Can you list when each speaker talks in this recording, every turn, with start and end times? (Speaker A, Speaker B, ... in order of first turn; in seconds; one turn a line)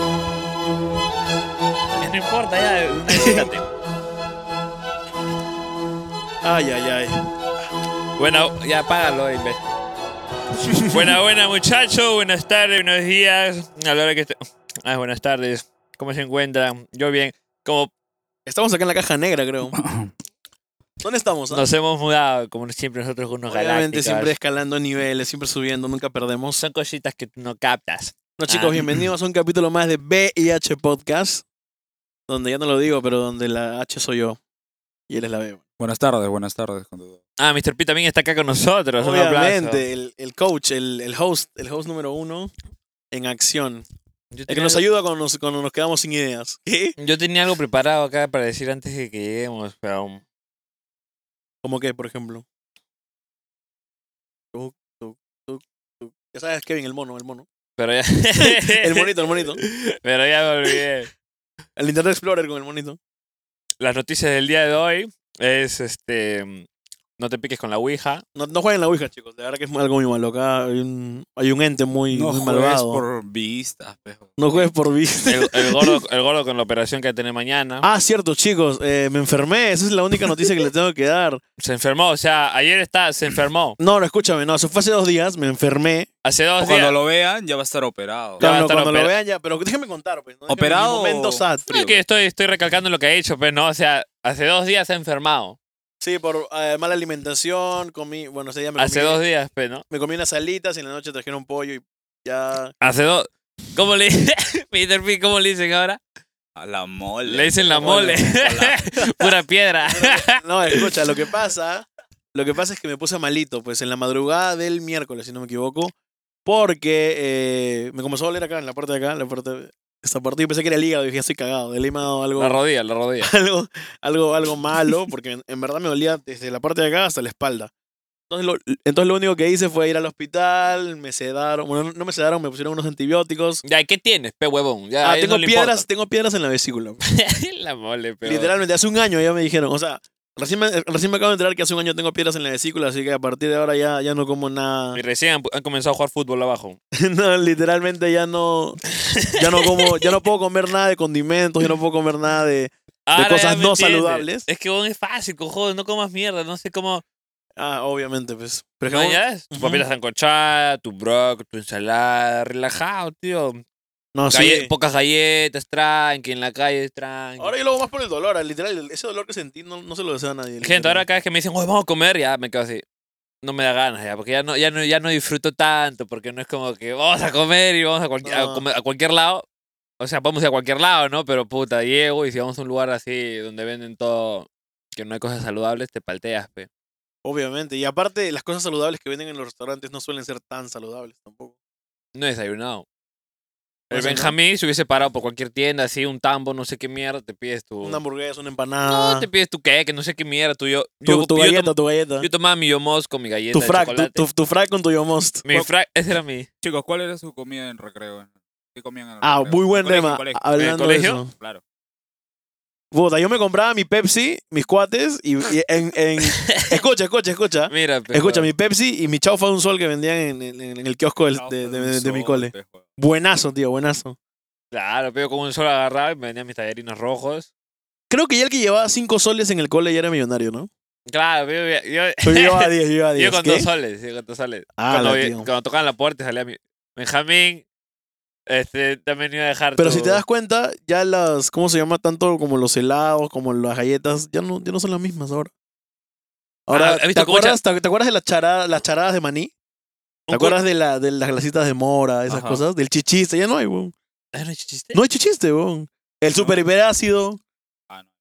Speaker A: 2.0-3.7
Speaker B: 3.1-3.5
Speaker B: 6.4-7.2
Speaker A: 8.2-9.6
Speaker B: 10.7-11.1
Speaker A: 10.9-17.9
Speaker B: 18.4-19.8
Speaker C: 19.7-20.1
Speaker B: 21.0-21.6
Speaker A: 21.5-24.3
Speaker B: 23.5-26.6
Speaker A: 26.6-28.8
Speaker B: 28.4-31.4
Speaker B: 32.3-34.4
Speaker B: 35.1-35.6
Speaker C: 35.8-37.2
Speaker A: 37.4-39.8
Speaker B: 39.0-42.5
Speaker B: 43.1-43.8
Speaker A: 44.3-44.8
Speaker B: 44.5-46.9
Speaker A: 47.0-50.2
Speaker B: 51.6-52.4
Speaker B: 54.5-57.5
Speaker A: 57.8-61.1
Speaker B: 58.4-59.6
Speaker B: 61.8-63.0
Speaker A: 63.8-66.7
Speaker A: 67.2-68.2
Speaker B: 68.3-73.0
Speaker C: 72.1-74.7
Speaker B: 74.4-76.0
Speaker A: 75.3-77.8
Speaker B: 77.8-81.4
Speaker A: 81.6-83.8
Speaker B: 83.8-86.1
Speaker A: 86.2-86.9
Speaker C: 86.6-88.4
Speaker A: 88.4-89.1
Speaker B: 88.4-91.8
Speaker C: 90.5-92.0
Speaker A: 91.7-95.6
Speaker B: 96.0-99.2
Speaker A: 98.8-99.8
Speaker B: 99.9-102.7
Speaker A: 102.8-106.0
Speaker C: 106.5-108.8
Speaker A: 107.2-110.9
Speaker B: 107.7-108.2
Speaker B: 109.9-115.9
Speaker B: 116.4-122.6
Speaker A: 122.4-123.3
Speaker B: 123.2-127.7
Speaker B: 128.3-133.6
Speaker A: 133.6-135.8
Speaker B: 135.0-137.0
Speaker A: 137.1-138.5
Speaker B: 138.2-145.0
Speaker A: 144.9-146.8
Speaker B: 147.0-154.5
Speaker A: 153.1-157.0
Speaker B: 157.6-159.8
Speaker A: 158.9-163.6
Speaker B: 164.1-164.7
Speaker A: 164.3-167.5
Speaker B: 167.4-171.0
Speaker A: 170.6-172.8
Speaker A: 173.4-179.4
Speaker B: 178.2-178.6
Speaker A: 180.0-186.7
Speaker B: 187.2-191.5
Speaker A: 192.1-192.8
Speaker B: 193.9-194.3
Speaker A: 193.9-198.0
Speaker B: 197.8-199.3
Speaker A: 198.8-204.2
Speaker B: 201.0-202.3
Speaker B: 203.5-205.4
Speaker A: 205.4-206.5
Speaker C: 206.6-210.8
Speaker B: 209.2-211.3
Speaker A: 210.6-211.2
Speaker C: 211.3-211.6
Speaker B: 212.9-224.2
Speaker A: 216.2-216.5
Speaker A: 217.7-218.5
Speaker C: 221.3-222.9
Speaker A: 224.7-227.5
Speaker B: 228.1-230.7
Speaker A: 231.1-237.6
Speaker B: 232.2-233.7
Speaker B: 234.8-235.5
Speaker A: 238.5-240.2
Speaker B: 239.8-245.5
Speaker B: 246.7-249.5
Speaker A: 246.7-247.6
Speaker A: 250.3-250.6
Speaker B: 250.3-253.9
Speaker A: 252.3-252.6
Speaker A: 254.3-255.0
Speaker B: 254.9-257.4